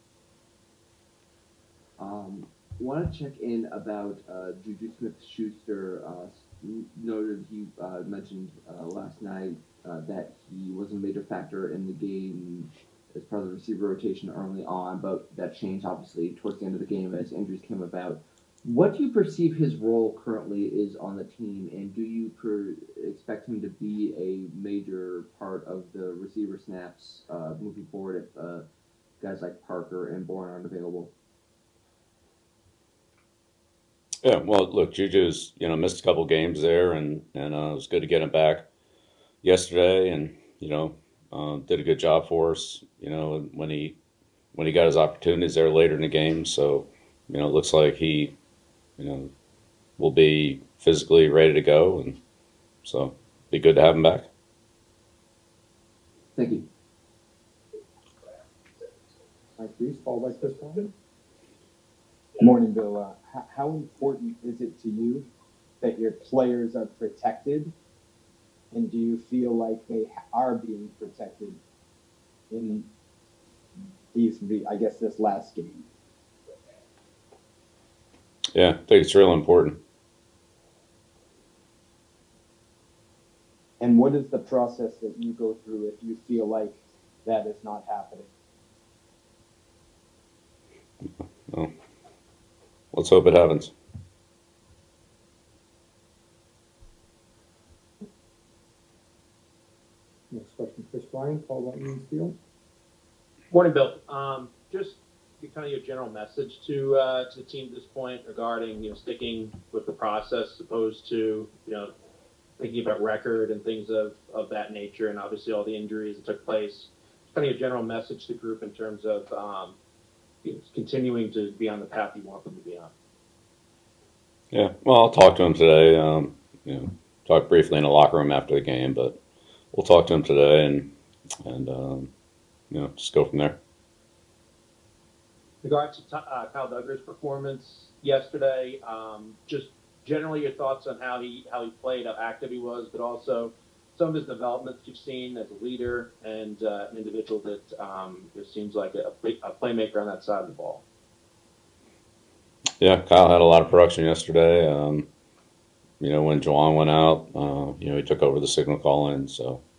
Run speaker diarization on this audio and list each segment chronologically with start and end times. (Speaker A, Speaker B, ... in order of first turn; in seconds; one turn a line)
Speaker A: 2.0-28.7
Speaker A: 29.2-31.1
Speaker B: 34.2-38.7
Speaker B: 39.4-44.0
Speaker B: 44.5-48.4
Speaker B: 49.0-49.3
Speaker B: 50.0-52.2
Speaker B: 52.8-54.3
Speaker A: 56.4-56.7
Speaker C: 59.6-60.9
Speaker D: 62.4-65.2
Speaker D: 65.8-67.7
Speaker D: 68.7-71.6
Speaker D: 72.5-72.9
Speaker D: 74.1-75.8
Speaker B: 78.5-79.8
Speaker D: 83.8-88.3
Speaker B: 92.9-93.7
Speaker C: 100.3-102.4
Speaker E: 103.5-111.9
Speaker E: 112.6-119.8
Speaker E: 120.4-122.9
Speaker B: 124.5-129.2
Speaker B: 129.7-130.9
Speaker B: 131.4-132.1
Speaker B: 132.7-133.6
Speaker E: 135.6-150.8
Speaker B: 152.8-155.1
Speaker B: 156.0-159.6